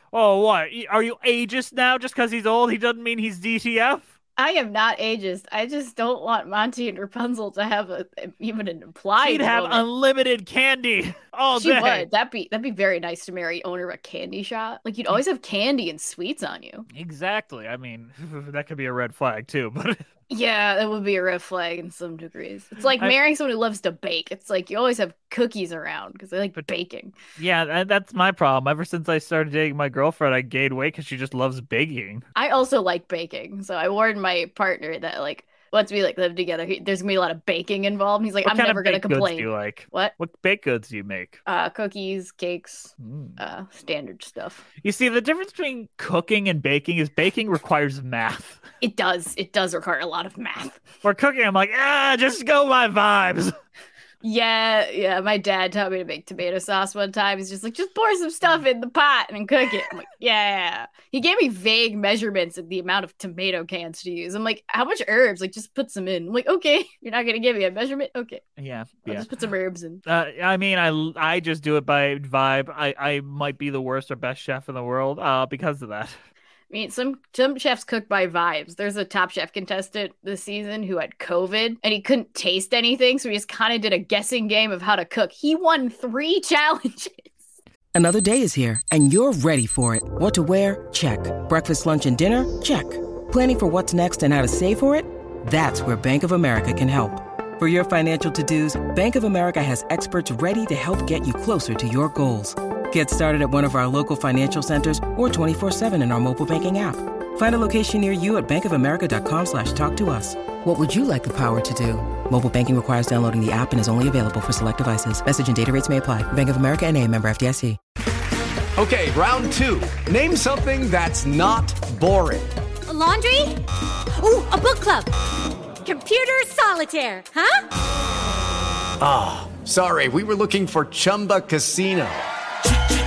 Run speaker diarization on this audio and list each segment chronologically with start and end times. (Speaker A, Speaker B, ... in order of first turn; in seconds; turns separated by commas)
Speaker A: 0.1-4.1, Speaker B: 4.4-9.8, Speaker A: 9.2-12.1, Speaker B: 11.6-16.9, Speaker A: 16.9-20.0, Speaker B: 20.3-27.1, Speaker A: 27.4-32.2, Speaker B: 32.4-40.1, Speaker A: 38.4-41.4, Speaker B: 41.5-44.6, Speaker A: 43.0-43.4, Speaker A: 44.8-48.6, Speaker B: 48.8-50.8, Speaker A: 51.0-53.5, Speaker B: 54.2-68.4, Speaker A: 68.6-69.3, Speaker B: 69.0-70.0, Speaker A: 70.0-76.2, Speaker B: 76.7-87.3, Speaker C: 87.9-117.8, Speaker D: 118.8-122.5, Speaker E: 122.9-125.1, Speaker E: 125.8-127.6, Speaker D: 129.0-132.3